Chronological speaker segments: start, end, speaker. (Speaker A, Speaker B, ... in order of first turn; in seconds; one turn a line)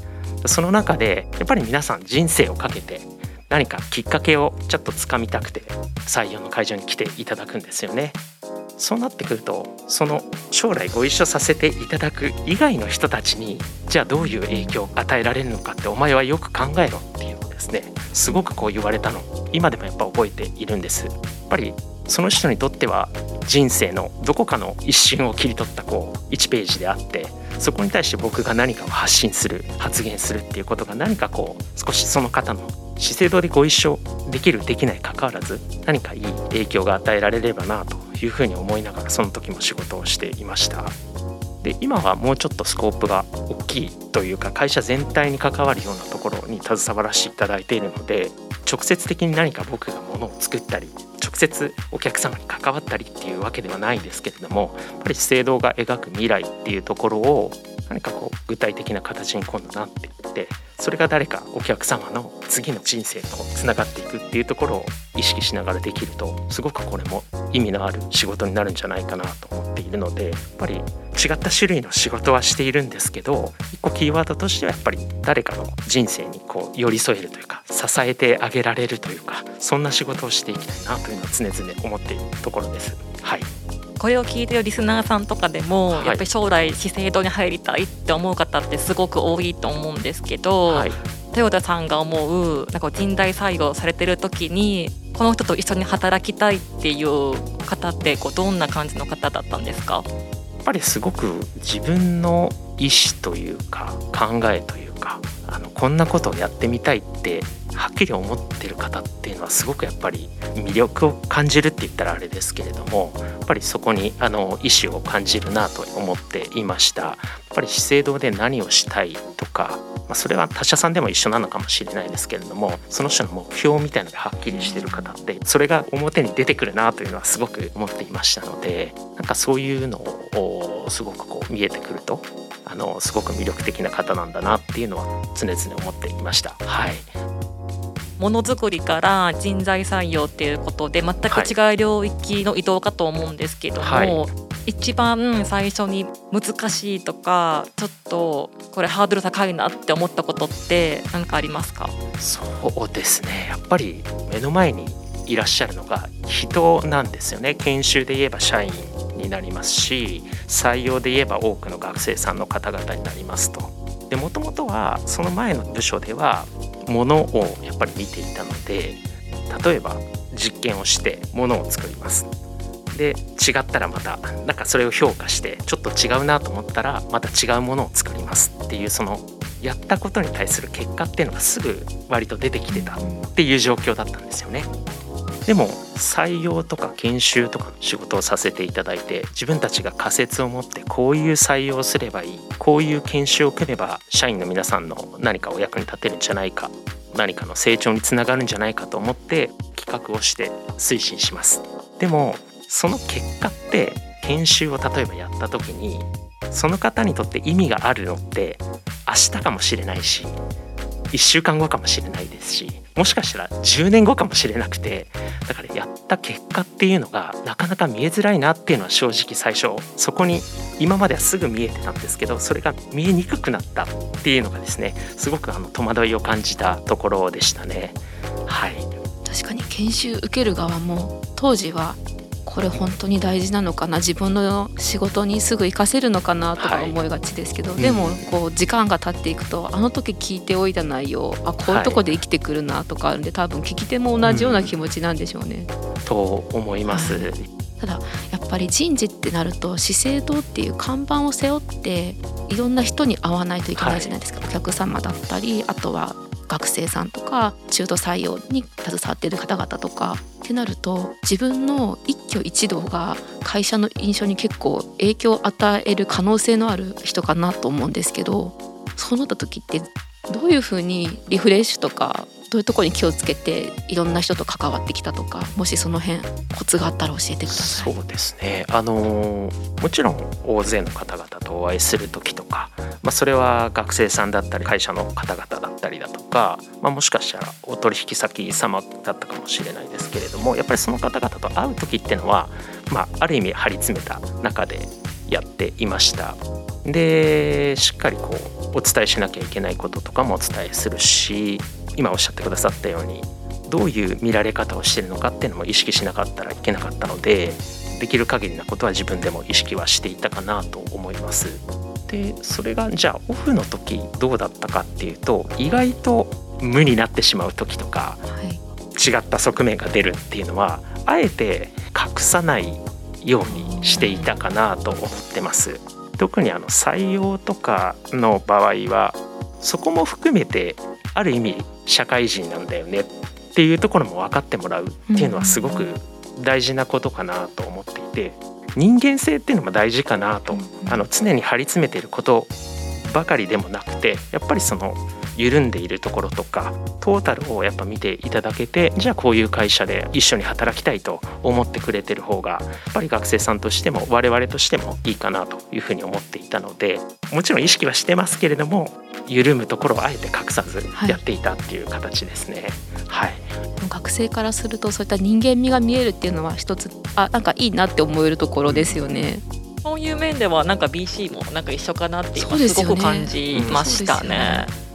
Speaker A: 0.4-8.2
Speaker A: 8.8-40.9
Speaker B: 14.2-14.8
Speaker B: 18.3-18.7
Speaker A: 41.6-83.5
Speaker C: 84.0-100.0
Speaker A: 85.9-86.2
Speaker A: 90.7-91.0
Speaker A: 100.6-137.1
Speaker B: 124.5-125.1
Speaker C: 138.2-151.9
Speaker A: 141.3-141.5
Speaker A: 143.8-144.3
Speaker A: 152.2-172.3
Speaker A: 172.9-184.7
Speaker B: 182.7-183.3
Speaker A: 185.4-210.4
Speaker A: 211.1-228.9
Speaker B: 229.2-245.7
Speaker A: 236.6-237.0
Speaker A: 237.8-238.3
Speaker A: 241.6-242.2
Speaker A: 244.2-244.7
Speaker A: 246.1-247.5
Speaker B: 246.9-277.9
Speaker A: 253.8-254.1
Speaker A: 277.5-318.2
Speaker B: 318.2-318.6
Speaker A: 318.9-363.5
Speaker B: 323.4-324.3
Speaker B: 335.1-335.9
Speaker B: 340.5-341.1
Speaker B: 360.9-361.2
Speaker B: 363.8-369.4
Speaker A: 368.6-369.3
Speaker C: 369.8-374.7
Speaker B: 372.4-374.7
Speaker A: 373.5-373.9